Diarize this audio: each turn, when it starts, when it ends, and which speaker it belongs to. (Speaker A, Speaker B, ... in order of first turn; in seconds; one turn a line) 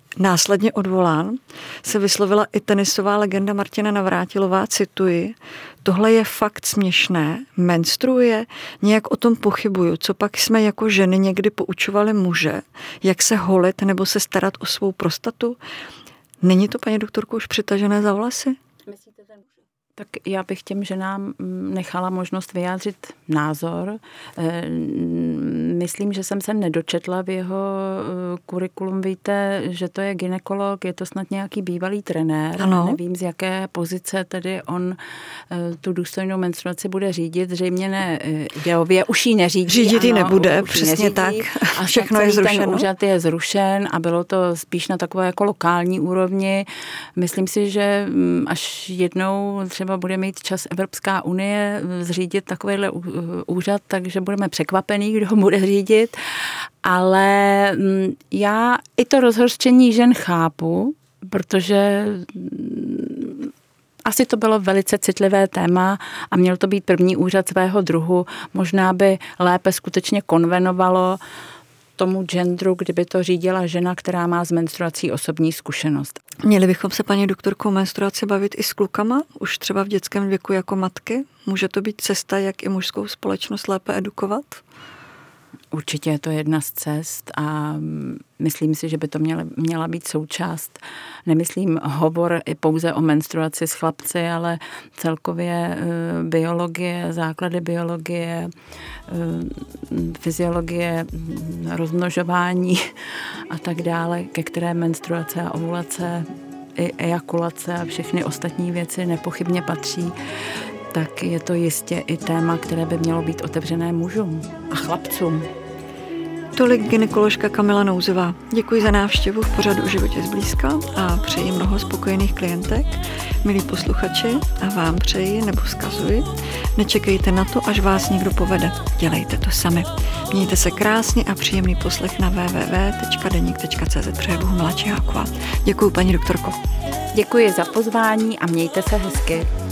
Speaker A: 0.2-15.6
Speaker A: 16.4-18.6
Speaker B: 18.9-19.4
Speaker B: 20.0-35.0
Speaker A: 32.6-33.0
Speaker B: 35.5-63.5
Speaker A: 39.7-42.9
Speaker B: 64.0-71.2
Speaker B: 72.0-76.2
Speaker A: 76.4-84.6
Speaker B: 85.7-98.5
Speaker B: 99.1-110.1
Speaker B: 110.9-115.5
Speaker A: 116.6-136.6
Speaker B: 137.1-139.5